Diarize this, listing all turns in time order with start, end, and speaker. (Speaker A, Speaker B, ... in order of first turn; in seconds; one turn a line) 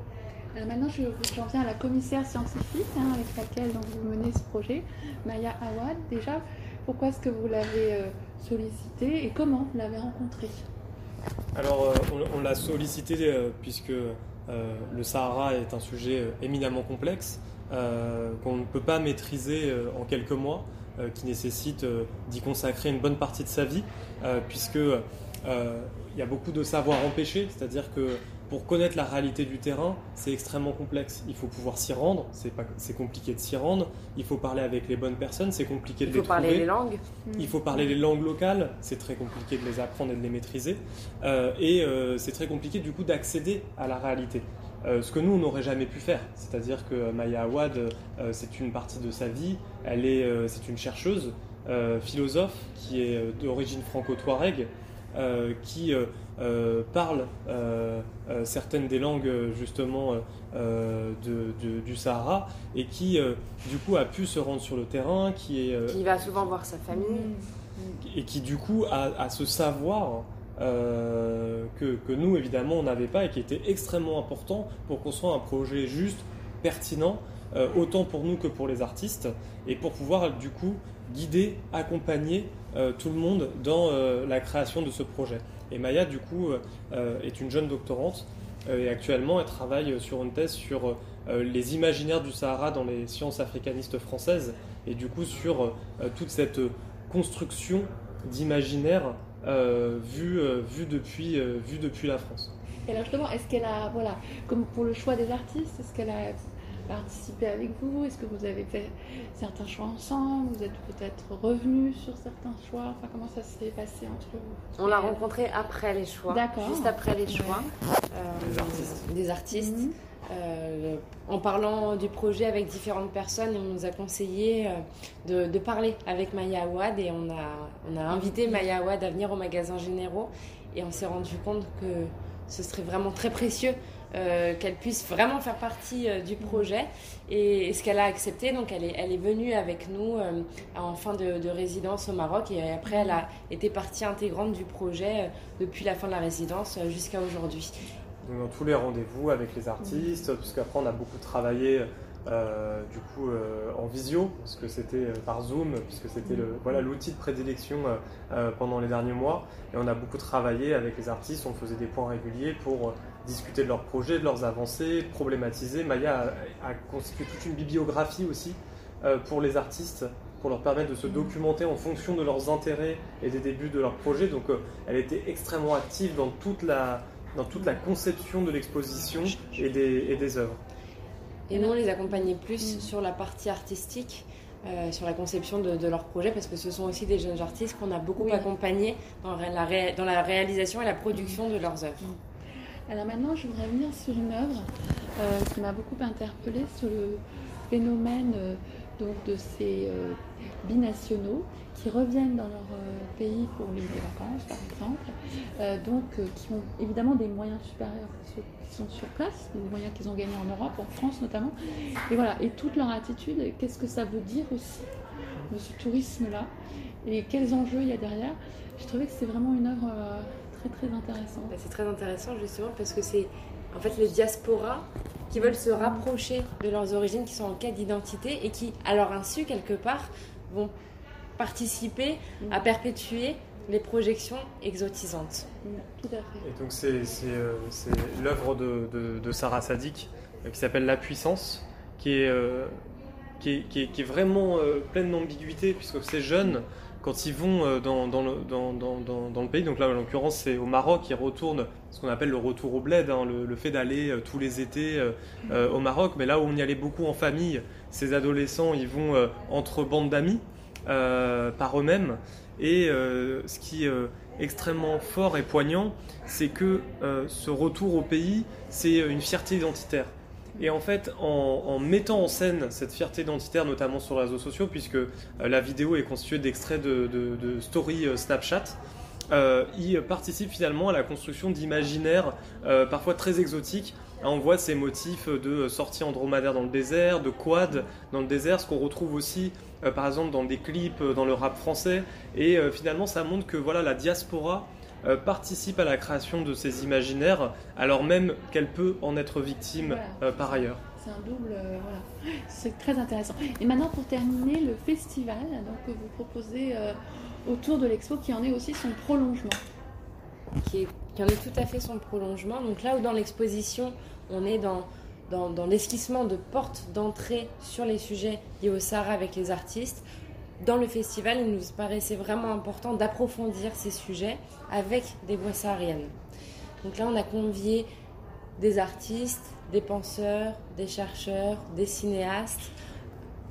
Speaker A: 0.5-10.7
Speaker B: 11.6-36.7
Speaker C: 36.0-37.0
Speaker A: 37.3-38.0
Speaker B: 37.4-66.2
Speaker C: 65.9-67.3
Speaker A: 66.9-68.0
Speaker B: 68.0-102.5
Speaker A: 102.9-115.3
Speaker C: 114.8-147.7
Speaker A: 116.3-117.7
Speaker B: 118.5-119.0
Speaker A: 119.5-119.9
Speaker A: 142.9-143.2
Speaker B: 148.2-180.6
Speaker A: 171.1-171.3
Speaker C: 181.5-192.1
Speaker A: 181.5-182.9
Speaker A: 188.2-188.5
Speaker A: 191.1-191.4
Speaker A: 192.9-211.6
Speaker A: 212.1-214.9
Speaker A: 215.5-216.5
Speaker A: 217.0-221.5
Speaker C: 221.5-230.7
Speaker A: 225.3-226.1
Speaker C: 231.4-235.5
Speaker A: 235.6-236.5
Speaker B: 236.4-242.8
Speaker B: 243.4-278.8
Speaker B: 279.3-300.8
Speaker A: 299.8-309.6
Speaker C: 310.6-320.0
Speaker C: 320.6-326.1
Speaker C: 326.8-327.9
Speaker C: 328.6-332.7